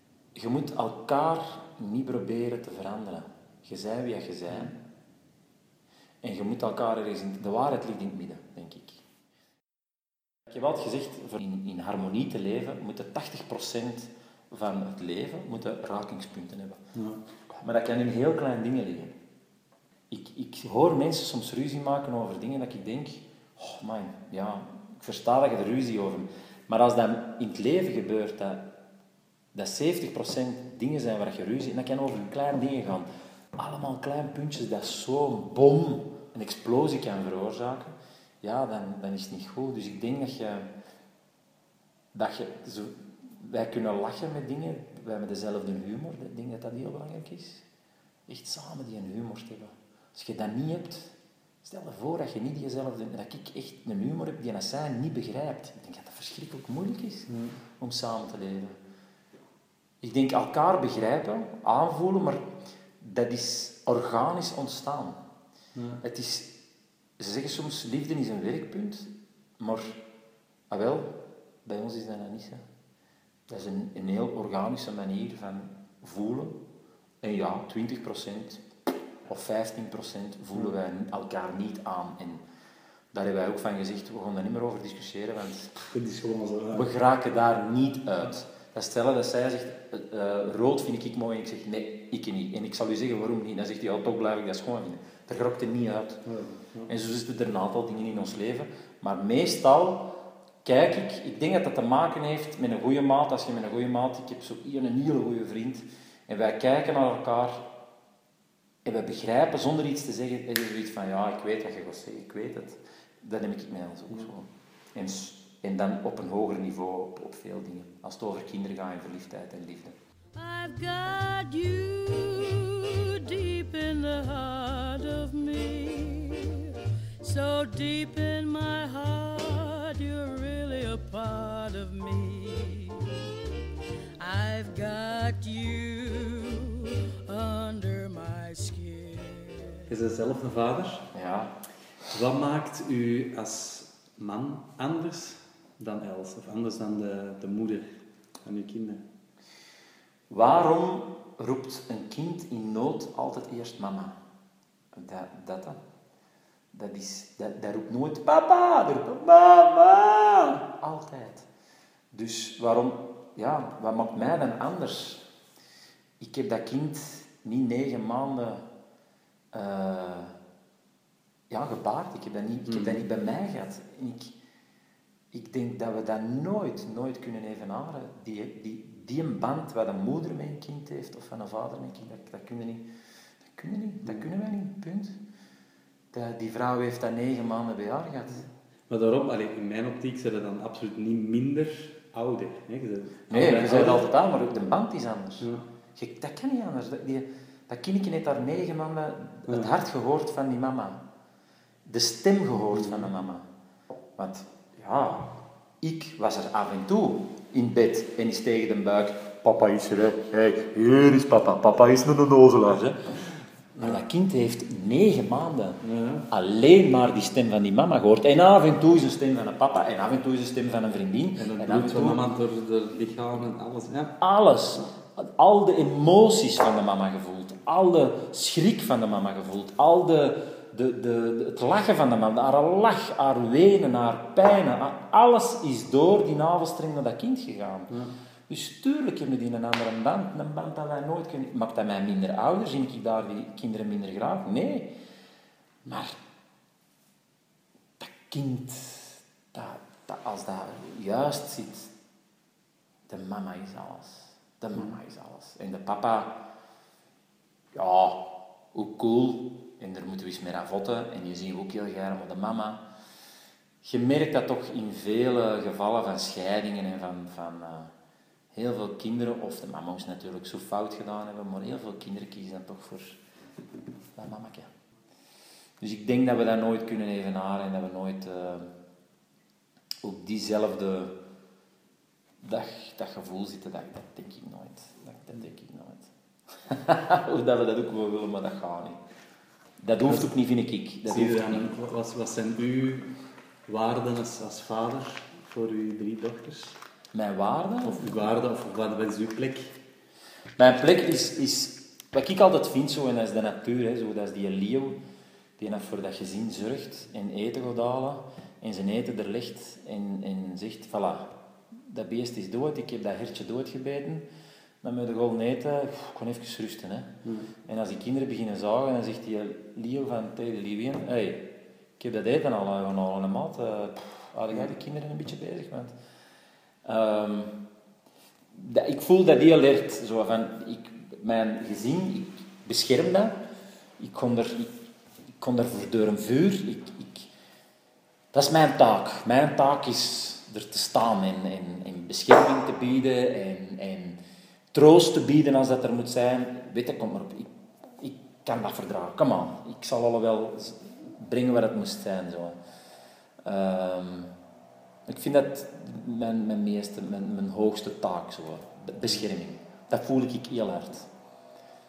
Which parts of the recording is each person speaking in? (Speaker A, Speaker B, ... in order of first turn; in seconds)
Speaker A: 0.3-4.8, 6.2-9.0, 10.5-16.8, 17.4-19.1, 20.1-28.7, 29.5-40.7, 42.1-47.6, 48.3-58.7, 60.0-62.4, 63.0-65.2, 66.0-66.6, 67.2-70.0, 70.7-72.6, 73.5-76.6, 77.2-78.6, 79.3-82.4, 83.1-85.8, 86.7-96.2, 96.9-100.1, 100.6-107.7, 108.8-120.0, 141.1-141.6, 150.3-154.2, 154.9-155.8, 156.7-161.4, 162.1-165.2, 166.2-168.7, 169.5-170.3, 171.5-174.3, 175.3-182.8, 183.5-185.2, 186.1-188.5, 193.3-201.0, 201.9-203.5, 204.2-213.2, 213.8-222.2, 224.2-237.9, 238.5-244.9, 245.8-246.2, 248.0-251.9, 253.1-256.4, 257.7-262.8, 263.8-267.9, 268.5-273.2, 274.1-274.7, 275.8-278.7, 280.0-281.2, 282.4-286.1, 286.6-289.0, 289.8-291.7, 297.1-298.1, 300.6-305.0, 305.6-314.2, 314.8-325.9, 326.8-327.6, 328.5-333.4, 334.0-334.7, 335.4-337.3, 338.3-344.2, 344.7-352.6, 353.4-354.3, 355.1-361.1
Speaker B: 16.9-17.2, 57.3-57.5, 65.7-66.0, 85.9-86.9, 96.2-96.9, 139.9-141.1, 142.1-149.0, 172.7-173.1, 188.9-194.0, 199.5-199.7, 202.7-203.1, 215.8-216.3, 221.4-224.1, 291.1-296.8, 297.8-299.7, 317.2-317.5
Speaker C: 120.3-133.2, 134.2-139.9